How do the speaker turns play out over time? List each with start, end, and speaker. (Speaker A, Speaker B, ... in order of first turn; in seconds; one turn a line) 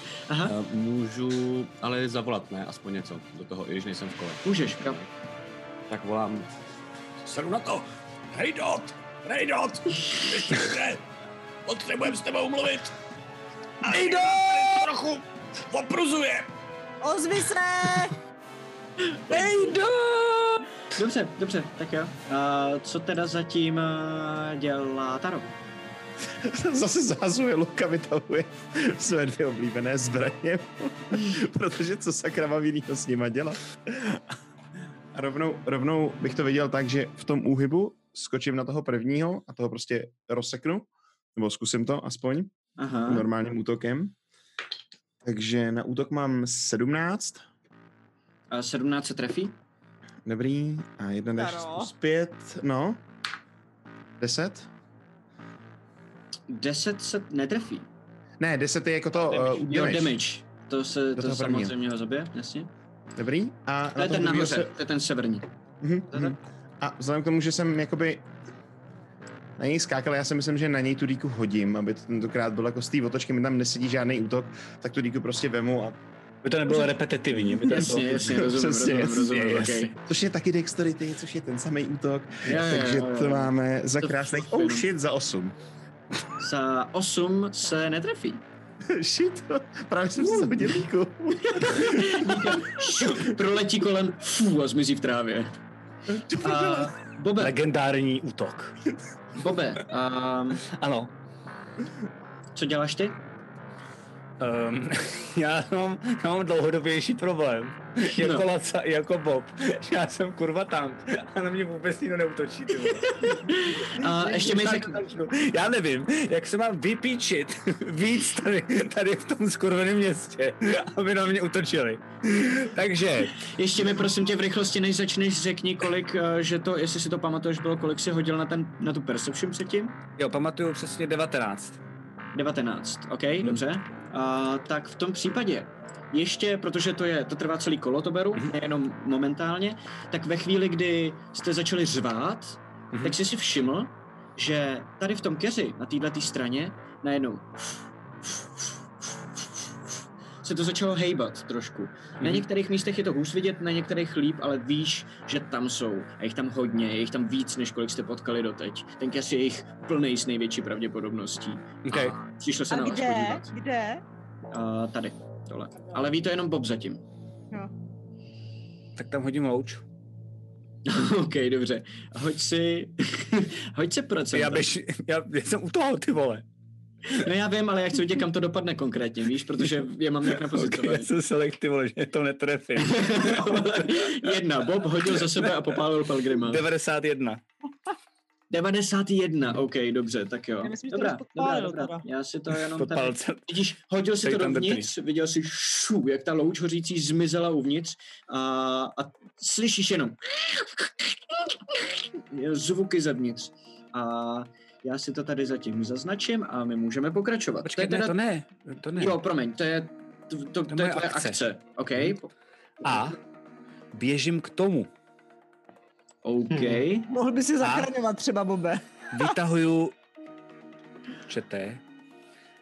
Speaker A: 0.3-0.5
Speaker B: 0.4-5.1
Speaker A: 4.4-5.0
Speaker B: 5.9-6.5
Speaker C: 7.3-11.0
Speaker C: 11.7-12.9
Speaker C: 13.8-16.5
Speaker D: 13.9-14.7
Speaker D: 17.0-18.2
Speaker A: 19.3-19.8
Speaker E: 19.3-20.6
Speaker A: 20.9-25.5
Speaker F: 26.4-34.2
Speaker F: 35.1-42.5
Speaker A: 42.8-43.3
Speaker F: 43.1-44.1
Speaker F: 45.2-47.4
Speaker A: 48.5-49.5
Speaker F: 50.2-53.0
Speaker D: 51.3-51.9
Speaker F: 54.2-54.7
Speaker A: 56.5-57.9
Speaker F: 58.4-60.2
Speaker A: 59.2-62.7
Speaker F: 61.1-61.7
Speaker F: 63.1-64.7
Speaker A: 63.9-65.5
Speaker F: 65.8-68.2
Speaker A: 66.1-66.4
Speaker F: 69.6-76.0
Speaker E: 76.4-78.5
Speaker A: 77.6-80.0
Speaker F: 78.0-79.5
Speaker E: 79.2-79.9
Speaker F: 80.0-85.5
Speaker A: 82.4-84.8
Speaker A: 86.4-88.4
Speaker F: 88.9-92.8
Speaker A: 91.5-95.5
Speaker F: 96.3-96.7
Speaker A: 96.4-97.5
Speaker E: 97.4-98.7
Speaker A: 99.3-100.6
Speaker E: 100.7-101.1
Speaker A: 102.5-103.2
Speaker E: 104.4-123.5
Speaker A: 108.1-108.4
Speaker A: 113.2-115.0
Speaker A: 123.4-129.9
Speaker E: 130.2-131.8
Speaker A: 132.3-163.5
Speaker E: 152.2-152.4
Speaker E: 161.8-162.2
Speaker D: 162.7-164.0
Speaker A: 164.5-167.0
Speaker E: 169.0-169.8
Speaker A: 170.8-174.7
Speaker E: 174.3-176.4
Speaker A: 177.1-181.1
Speaker E: 180.4-184.3
Speaker A: 182.8-186.6
Speaker E: 185.0-187.4
Speaker A: 188.5-201.0
Speaker D: 190.6-192.0
Speaker E: 192.6-193.6
Speaker E: 194.2-194.9
Speaker A: 202.3-208.2
Speaker E: 207.6-209.2
Speaker A: 209.0-212.3
Speaker E: 210.7-211.4
Speaker E: 212.8-213.2
Speaker E: 213.9-214.9
Speaker A: 216.2-217.1
Speaker D: 217.1-218.8
Speaker E: 217.6-217.9
Speaker E: 219.1-219.9
Speaker E: 221.3-221.8